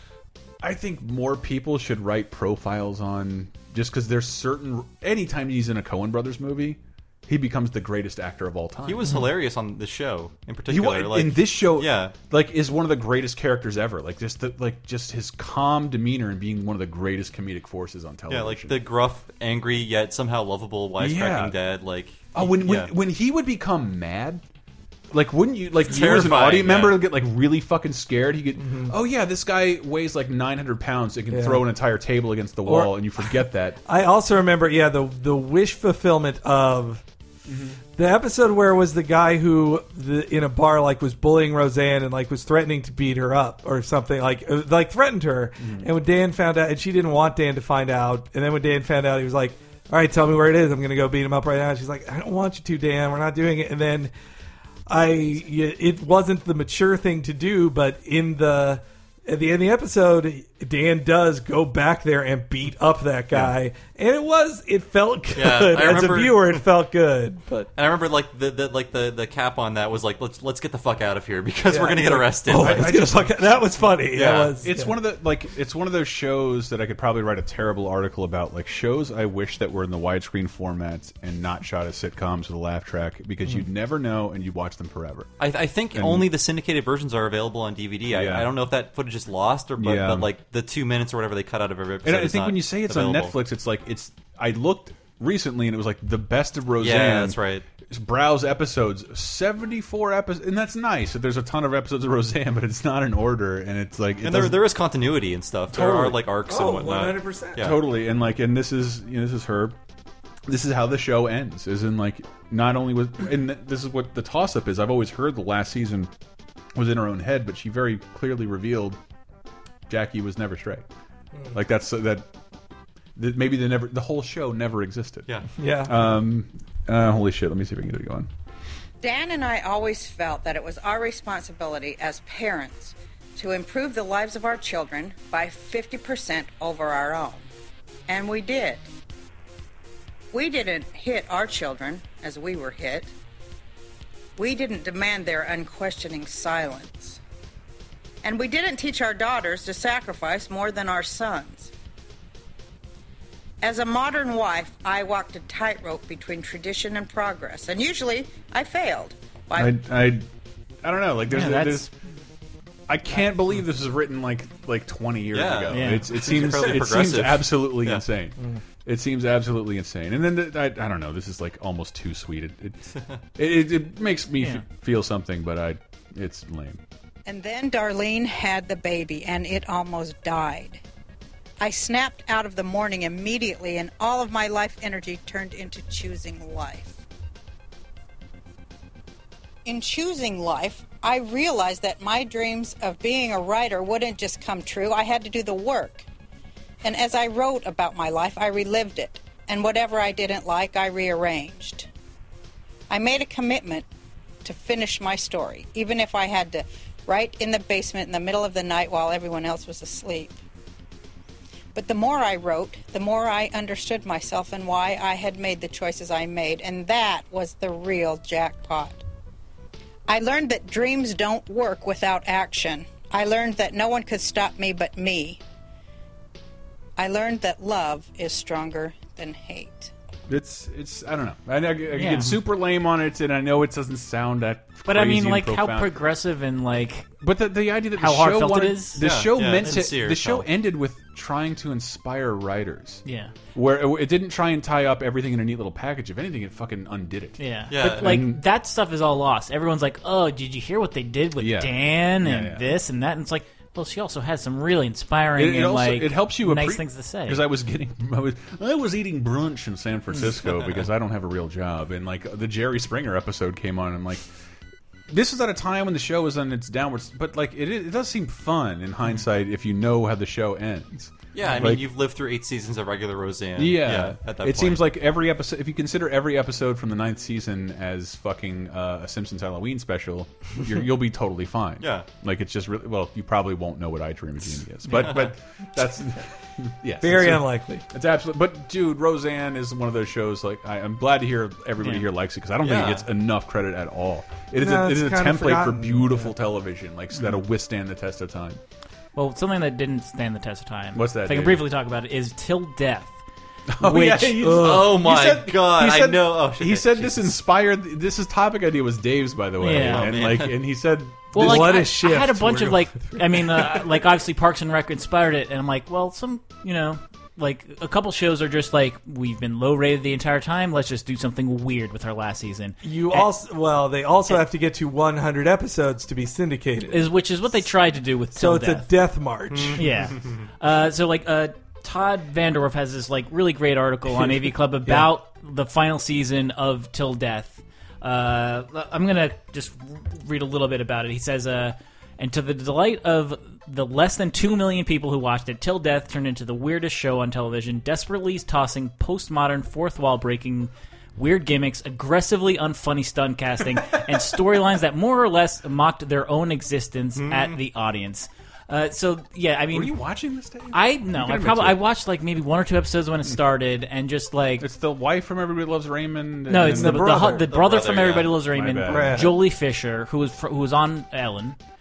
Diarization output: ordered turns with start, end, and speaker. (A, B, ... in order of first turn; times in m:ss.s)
0:00.6-0:09.2 A
0:08.8-0:12.1 B
0:10.7-0:18.8 A
0:18.3-0:22.9 B
0:21.0-0:21.6 A
0:22.3-0:24.4 A
0:25.1-0:33.8 A
0:25.8-0:27.0 B
0:28.6-0:28.9 C
0:31.3-0:31.6 C
0:32.6-0:33.0 C
0:33.8-0:37.0 C
0:37.5-0:37.8 A
0:38.0-0:54.1 C
0:45.6-0:45.9 A
0:54.9-1:07.7 C
1:05.3-1:06.6 B
1:07.7-1:13.1 B
1:11.7-1:15.0 C
1:12.5-1:13.3 A
1:14.1-1:14.5 B
1:14.5-1:25.3 A
1:25.4-1:33.3 B
1:25.9-1:26.3 A
1:28.1-1:28.5 A
1:29.8-1:30.3 A
1:32.0-1:44.6 A
1:36.8-1:37.6 B
1:44.2-1:47.8 B
1:45.7-1:46.2 A
1:46.5-1:47.7 C
1:47.6-1:49.8 A
1:50.5-1:56.1 A
1:56.7-1:59.0 A
1:59.9-2:00.8 A
2:01.5-2:02.3 A
2:03.2-2:05.2 A
2:05.6-2:05.9 C
2:05.8-2:08.3 A
2:09.0-2:17.4 D
2:18.1-2:18.8 D
2:20.3-2:23.1 D
2:24.4-2:27.2 D
2:28.2-2:31.7 D
2:33.6-2:39.8 D
2:39.5-2:40.3 A
2:40.8-2:41.9 A
2:41.3-2:41.9 E
2:42.9-2:52.8 A
2:45.3-2:48.0 B
2:45.7-2:46.1 E
2:53.4-2:56.8 A
2:54.4-2:54.6 E
2:57.2-3:00.8 D
3:01.6-3:07.0 D
3:09.6-3:16.0 D
3:16.8-3:21.9 D
3:22.9-3:23.8 D
3:24.4-3:30.4 D
3:31.7-3:39.0 D
3:40.1-3:45.4 D
3:47.0-3:49.9 D
3:50.3-3:55.9 A
3:52.0-3:52.4 E
3:54.9-3:57.1 E
3:57.2-4:03.0 A
3:58.0-3:59.0 E
3:59.0-4:00.4 B
4:03.0-4:03.3 E
4:03.5-4:08.4 A
4:07.4-4:17.4 E
4:07.7-4:08.2 B
4:11.4-4:12.7 A
4:15.4-4:24.3 A
4:25.1-4:31.8 A
4:31.3-4:34.8 B
4:33.6-4:58.6 A
4:41.8-4:42.1 B
4:47.0-4:47.8 C
4:52.6-4:53.0 B
4:54.6-4:56.3 C
4:59.1-5:03.2 E
5:00.9-5:01.6 A
5:03.7-5:11.8 A
5:03.8-5:04.4 E
5:04.4-5:05.0 C
5:04.5-5:07.3 B
5:09.6-5:10.3 E
5:09.7-5:10.6 B
5:11.3-5:23.3 E
5:11.4-5:13.8 C
5:22.8-5:27.1 C
5:26.9-5:28.9 E
5:28.3-5:29.8 C
5:29.8-6:00.0 E
5:57.2-5:57.5 B
5:59.7-6:01.8 A
6:00.7-6:04.7 E
6:04.6-6:07.3 A
6:06.5-6:11.6 E
6:06.6-6:07.4 C
6:07.5-6:08.4 B
6:08.5-6:09.3 A
6:08.8-6:09.4 C